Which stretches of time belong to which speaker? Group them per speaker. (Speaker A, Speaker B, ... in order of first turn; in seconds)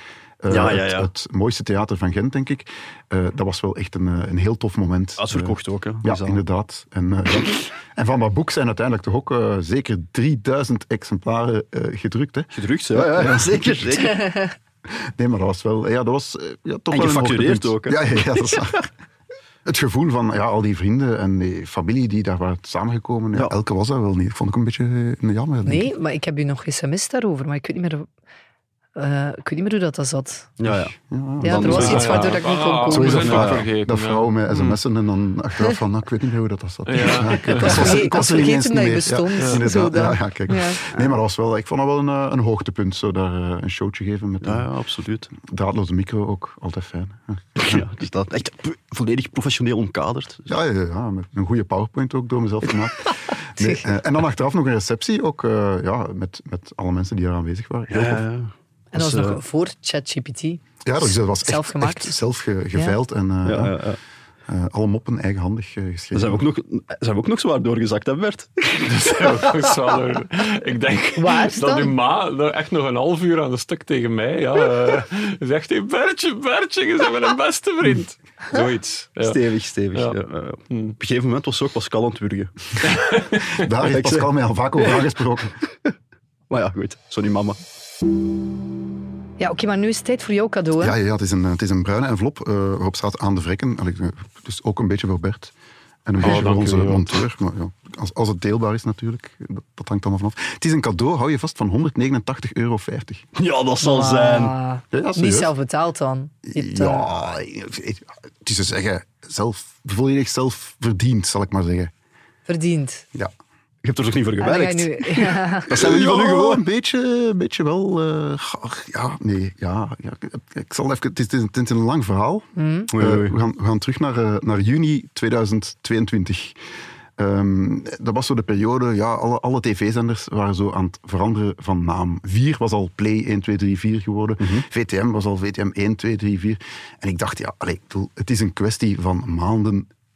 Speaker A: 0.4-14.2, 14.9-18.9, 19.6-25.9, 30.7-32.4, 32.9-44.7, 45.4-47.9, 50.5-58.2, 60.9-63.8, 64.5-66.5, 83.6-85.5, 90.8-95.5, 96.1-103.3, 104.9-105.5, 106.5-111.9, 115.7-126.6, 127.2-139.9
Speaker B: 0.5-1.1, 5.2-6.4, 12.5-14.3, 16.9-18.7, 30.6-32.4, 33.2-33.7, 44.4-45.3, 47.6-50.5, 57.9-59.4, 63.5-64.0, 66.1-69.6, 79.2-82.8, 83.8-85.1, 86.5-87.6, 103.4-104.5, 113.8-116.6, 122.9-123.4, 134.4-134.7
Speaker C: 25.6-28.1, 29.0-30.5, 31.4-33.4, 37.5-41.1, 53.6-53.9, 58.9-62.2, 71.2-72.0, 89.4-91.0, 103.8-107.1, 112.5-113.0, 114.4-115.7, 122.6-122.9
Speaker D: 31.7-34.8, 36.9-37.8, 68.8-79.4, 80.7-81.0, 82.9-83.7, 96.2-97.1